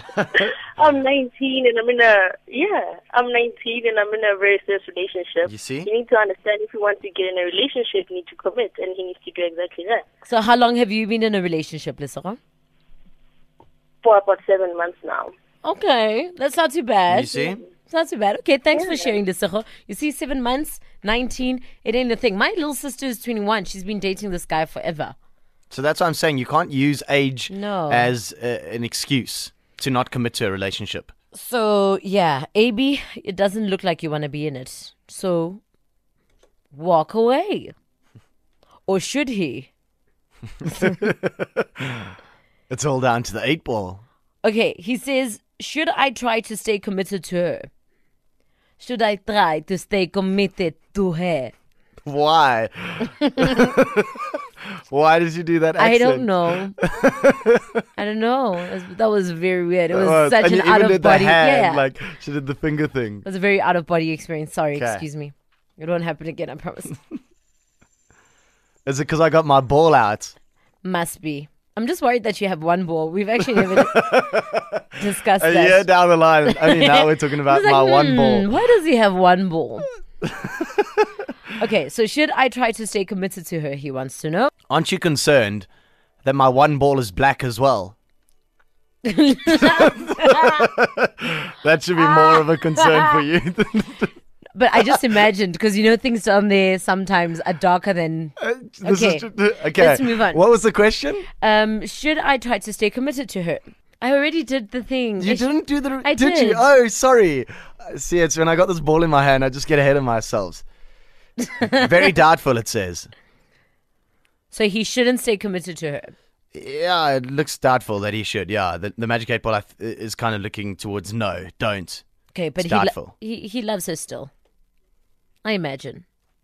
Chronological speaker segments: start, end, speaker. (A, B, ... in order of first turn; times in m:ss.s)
0:00.3-0:10.1 A
0:05.4-0:05.9 B
0:10.3-0:12.4 C
0:14.0-0:15.3 A
0:15.6-0:25.2 C
0:17.1-0:17.6 B
0:25.7-0:31.1 B
0:27.5-0:28.2 C
0:31.3-0:35.6 C
0:36.7-0:37.7 C
0:38.9-0:39.7 C
0:40.7-0:42.1 B
0:42.7-0:44.0 B
0:44.4-0:47.7 C
0:48.8-0:51.5 C
0:52.0-0:54.3 B
0:54.8-0:57.8 B
0:55.8-0:56.8 C
0:58.0-1:01.8 C
0:59.9-1:03.3 B
1:03.2-1:07.0 C
1:04.8-1:05.0 B
1:08.9-1:10.3 B
1:10.8-1:14.2 C
1:13.5-1:14.8 B
1:15.0-1:15.9 C
1:15.4-1:18.5 B
1:16.4-1:19.9 C
1:20.2-1:21.0 B
1:21.6-1:24.5 C
1:24.7-1:25.7 B
1:26.2-1:28.0 B
1:29.0-1:30.6 C
1:29.5-1:34.1 B
1:32.0-1:33.2 C
1:34.6-1:40.4 C
1:38.4-1:41.3 B
1:41.4-1:45.5 C
1:45.2-1:50.6 B
1:46.0-1:46.6 C
1:51.6-1:53.1 B
1:54.5-1:56.1 C
1:56.5-2:02.0 B
2:02.3-2:04.3 C
2:02.6-2:03.1 B
2:05.4-2:06.0 C